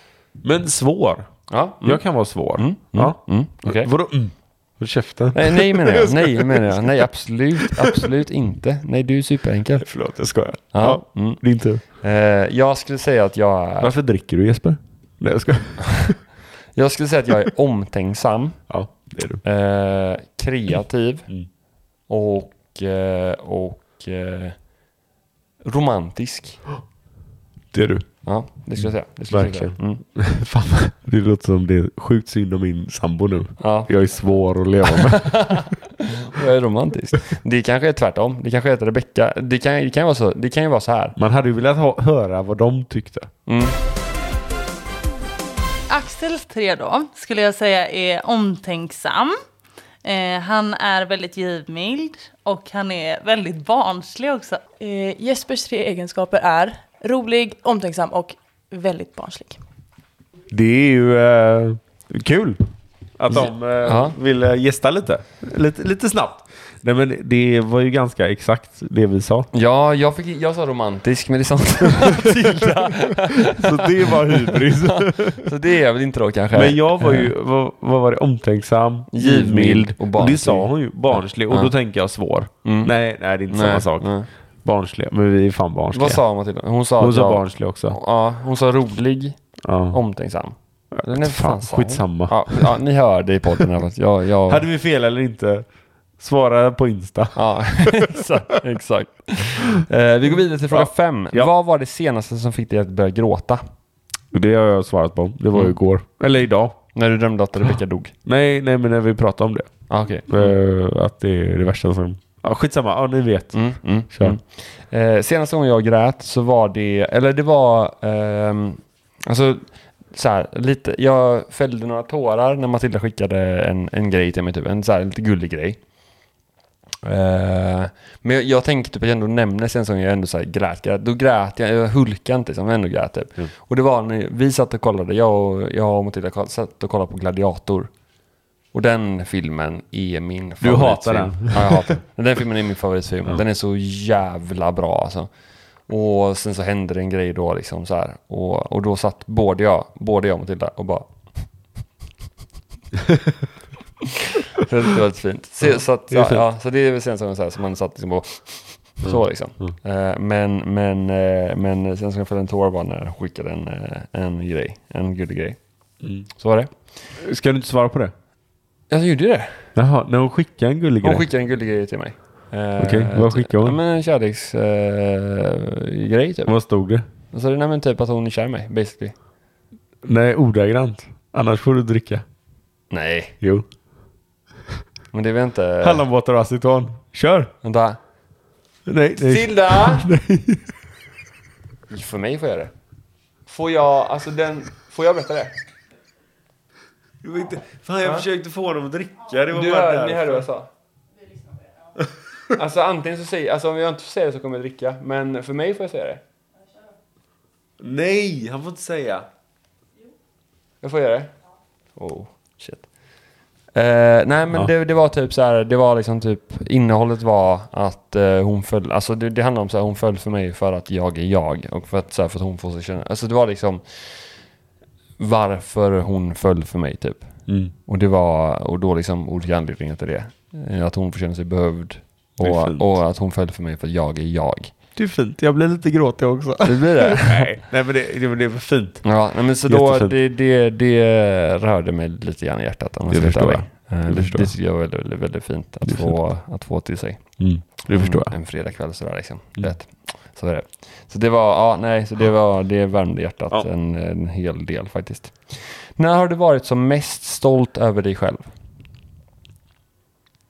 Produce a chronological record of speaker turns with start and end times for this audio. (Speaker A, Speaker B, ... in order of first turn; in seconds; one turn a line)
Speaker A: 0.4-1.3
Speaker B: 1.5-3.9
Speaker A: 1.8-6.9
Speaker B: 5.3-9.9
Speaker A: 7.6-8.0
Speaker A: 9.8-11.8
Speaker B: 10.7-13.9
Speaker A: 13.8-16.2
Speaker B: 16.8-18.7
Speaker A: 18.7-19.4
Speaker B: 19.4-21.3
Speaker B: 22.1-24.6
Speaker B: 25.6-26.6
Speaker A: 27.7-28.1
Speaker B: 28.2-30.0
Speaker A: 29.3-35.7
Speaker B: 33.6-33.9
Speaker B: 34.8-41.2
Speaker A: 41.2-43.3
Speaker B: 43.5-43.8
Speaker C: 45.9-49.4
Speaker C: 50.0-54.6
Speaker D: 54.8-59.6
Speaker A: 60.5-69.5
Speaker B: 63.3-64.2
Speaker B: 69.5-77.3
Speaker A: 72.2-75.5
Speaker A: 76.5-84.1
Speaker B: 79.1-81.7
Speaker B: 82.7-82.9
Speaker B: 83.5-84.3
Speaker A: 84.6-86.2
Speaker B: 85.9-89.4
Speaker A: 87.0-88.0
Speaker A: 89.6-90.0
Speaker B: 89.9-94.7
Speaker A: 91.0-92.7
Speaker A: 94.5-95.7
Speaker A: 96.2-98.3
Speaker B: 97.3-103.6
Speaker A: 100.7-101.5
Speaker A: 104.3-106.8
Speaker B: 106.9-108.1
Speaker A: 108.2-109.7
Speaker B: 109.9-110.6
Speaker A: 110.3-114.4
Speaker B: 113.5-125.8
Speaker B: 127.0-137.9
Speaker B: 138.7-145.3
Speaker A: 140.6-142.0
Speaker B: 145.9-151.1
Speaker B: 154.0-165.6
Speaker A: 156.1-156.4
Speaker A: 159.0-159.7
Speaker B: 166.3-166.7
Speaker A: 167.2-168.1
Speaker B: 168.9-169.7
Speaker A: 169.8-171.3
Speaker B: 171.0-176.5
Speaker A: 172.8-173.8
Speaker A: 176.5-177.1
Speaker B: 177.3-179.2
Speaker A: 180.0-182.2
Speaker B: 182.9-183.3
Speaker A: 183.4-183.7
Speaker B: 185.1-186.0
Speaker A: 185.8-187.5
Speaker B: 187.6-188.0
Speaker A: 188.9-190.7
Speaker B: 189.2-190.1
Speaker B: 191.9-192.7
Speaker B: 193.5-195.6
Speaker A: 197.2-200.4
Speaker B: 199.5-200.7
Speaker B: 202.6-206.2
Speaker A: 207.8-209.3
Speaker B: 210.8-211.3
Speaker B: 212.0-212.9
Speaker B: 213.7-224.3
Speaker B: 225.2-227.3
Speaker A: 227.5-227.7
Speaker B: 227.8-234.7
Speaker A: 232.4-232.9
Speaker A: 235.0-239.1
Speaker B: 236.6-237.5
Speaker B: 239.0-247.3
Speaker A: 239.7-240.1
Speaker A: 243.1-244.5
Speaker A: 245.9-246.1
Speaker A: 247.4-248.3
Speaker B: 247.9-258.5